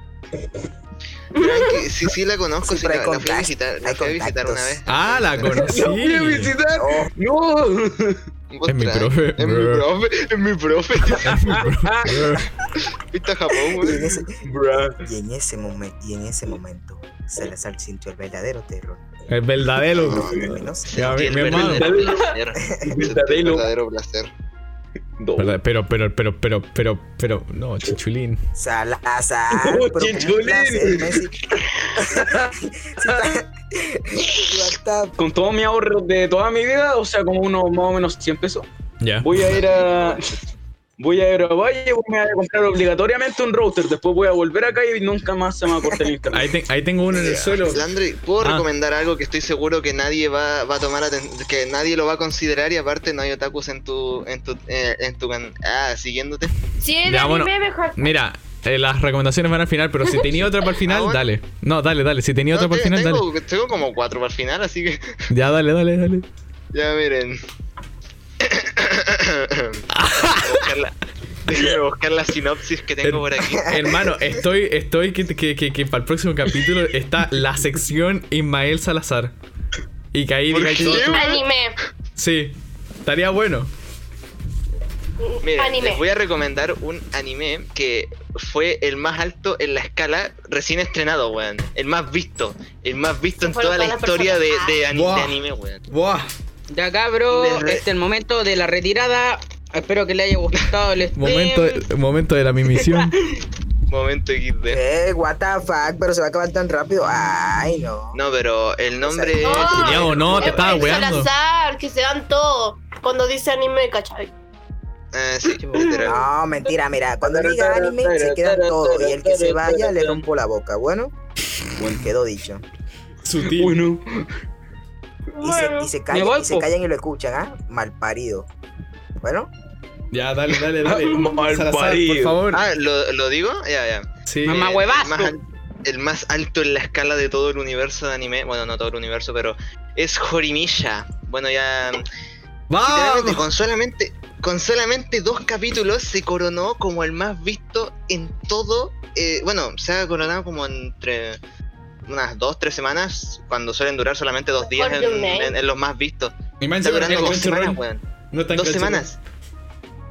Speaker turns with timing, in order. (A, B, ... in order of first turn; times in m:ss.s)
0:01.4-0:05.6 A
0:01.4-0:01.9 B
0:02.6-0:04.8 C
0:04.9-0:06.6 D
0:05.5-0:08.2 E
0:06.8-0:07.1 C
0:08.5-0:11.4 A
0:08.7-0:09.8 D
0:11.1-0:12.2 E
0:11.2-0:12.5 D
0:13.0-0:14.0 A
0:13.8-0:14.4 C
0:13.9-0:15.0 E
0:15.0-0:19.0 C
0:19.3-0:20.3 D
0:20.0-0:24.3 A
0:20.0-0:21.2 C
0:20.9-0:21.9 D
0:21.4-0:23.7 E
0:22.6-0:23.0 C
0:25.2-0:25.6 E
0:25.4-0:28.4 D
0:28.6-0:35.2 C
0:29.5-0:31.3 E
0:35.2-0:38.7 E
0:39.0-0:39.4 D
0:39.2-0:40.4 E
0:39.4-0:40.2 A
0:41.0-0:46.5 E
0:46.3-0:47.9 D
0:47.1-0:56.6 A
0:48.4-0:48.7 D
0:56.8-0:58.1 B
0:57.1-1:03.2 D
1:00.9-1:01.2 A
1:02.5-1:05.2 A
1:05.3-1:06.3 D
1:06.7-1:07.4 A
1:08.4-1:11.0 A
1:09.9-1:10.7 D
1:11.5-1:13.7 A
1:13.0-1:19.3 D
1:13.6-1:14.4 C
1:20.1-1:21.2 D
1:20.5-1:21.4 A
1:20.8-1:21.1 E
1:21.1-1:21.8 B
1:22.2-1:23.7 D
1:25.2-1:26.0 B
1:25.4-1:35.8 A
1:33.4-1:34.8 B
1:34.9-1:36.3 D
1:36.7-1:41.8 F
1:37.3-1:37.8 A
1:41.2-1:43.1 D
1:42.8-1:43.1 F
1:43.9-1:44.8 A
1:44.7-1:48.2 C
1:48.1-1:51.0 A
1:49.0-1:49.8 C
1:49.4-1:54.3 B
1:49.7-1:51.3 D
1:55.1-1:56.2 A
1:56.0-2:01.1 C
1:57.2-2:00.2 E
2:01.8-2:02.1 E
2:01.8-2:02.6 C
2:03.2-2:03.8 D
2:03.4-2:04.3 E
2:05.4-2:05.9 B
2:05.4-2:08.5 C
2:06.1-2:06.7 F
2:09.2-2:09.5 C
2:10.1-2:12.6 D
2:10.8-2:12.4 E
2:12.5-2:22.0 A
2:14.3-2:14.7 D
2:14.4-2:15.4 F
2:22.7-2:23.5 D
2:22.8-2:31.4 A
2:32.1-2:39.2 A
2:34.6-2:35.6 B
2:36.6-2:39.1 D